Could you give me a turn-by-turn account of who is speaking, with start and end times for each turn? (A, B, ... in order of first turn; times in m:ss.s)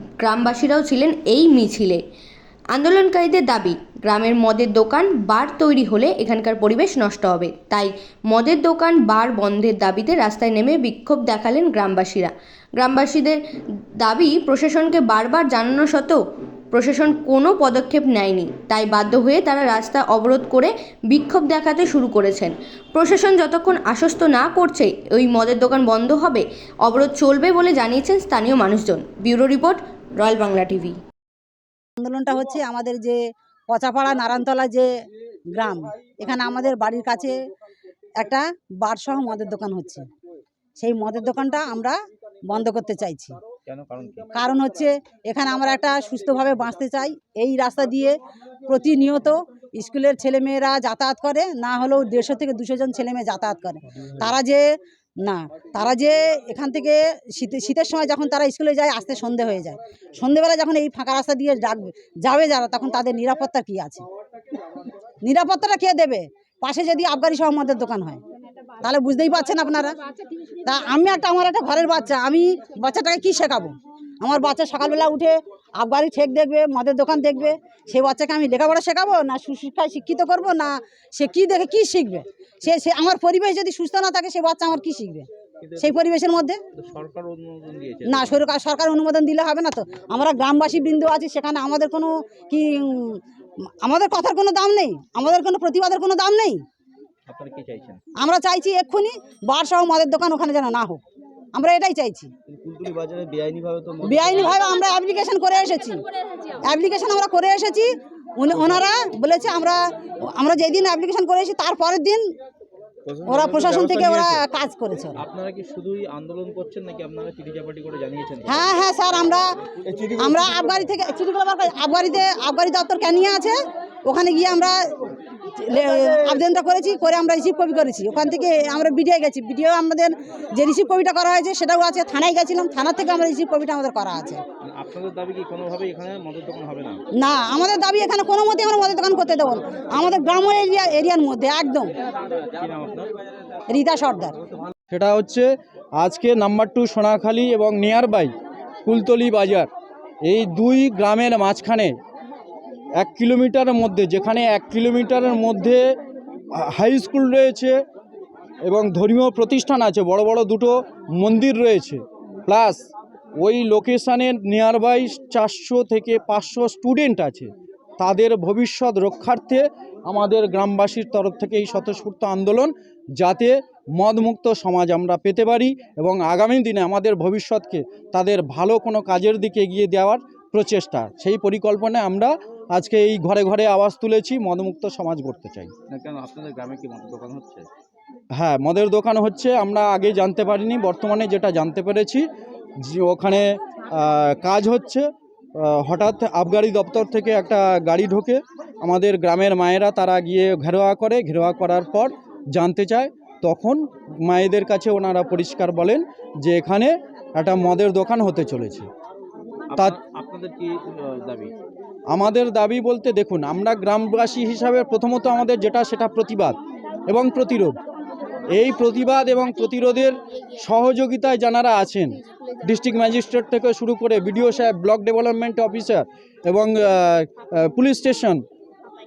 0:00.2-0:02.0 A
0:02.7-0:13.4 A
0:14.0-0:16.2 A
0:16.7-0:31.0 A
0:32.0-0:33.2 B
0:33.7-0:34.9 B
0:35.5-0:37.4 B
0:38.2-0:40.0 B
0:40.8-0:42.0 B
0:42.5-0:43.4 B
0:43.7-0:44.3 C
0:44.3-0:48.1 B
0:48.7-0:54.6 B
0:55.2-1:04.0 B
1:05.2-1:08.2 B
1:08.8-1:10.0 B
1:10.6-1:25.3 B
1:25.6-1:26.0 C
1:25.8-1:26.6 B
1:26.8-1:28.5 C
1:28.1-1:33.2 B
1:33.8-1:36.6 B
1:37.3-1:38.0 C
1:38.2-1:41.0 B
1:41.5-1:42.3 B
1:42.5-1:44.5 C
1:44.0-1:46.0 B
1:46.6-1:52.2 B
1:48.5-1:48.8 C
1:53.0-1:54.4 C
1:53.2-1:55.2 B
1:55.2-1:58.7 C
1:58.4-1:59.5 B
2:00.1-2:03.5 B
2:04.0-2:04.8 B
2:05.6-2:14.4 B
2:14.6-2:17.0 C
2:17.2-2:21.9 B
2:22.3-2:23.2 C
2:23.7-2:24.4 B
2:24.9-2:28.3 D
2:28.8-2:29.7 D
2:30.2-2:31.9 D
2:33.0-2:35.8 D
2:36.5-2:37.8 D
2:38.6-2:42.8 D
2:43.4-3:05.7 D
3:05.9-3:07.7 C
3:08.3-3:12.2 D
3:12.8-3:28.9 D
3:29.7-3:31.5 C
3:32.1-3:37.8 D
3:38.5-3:48.4 D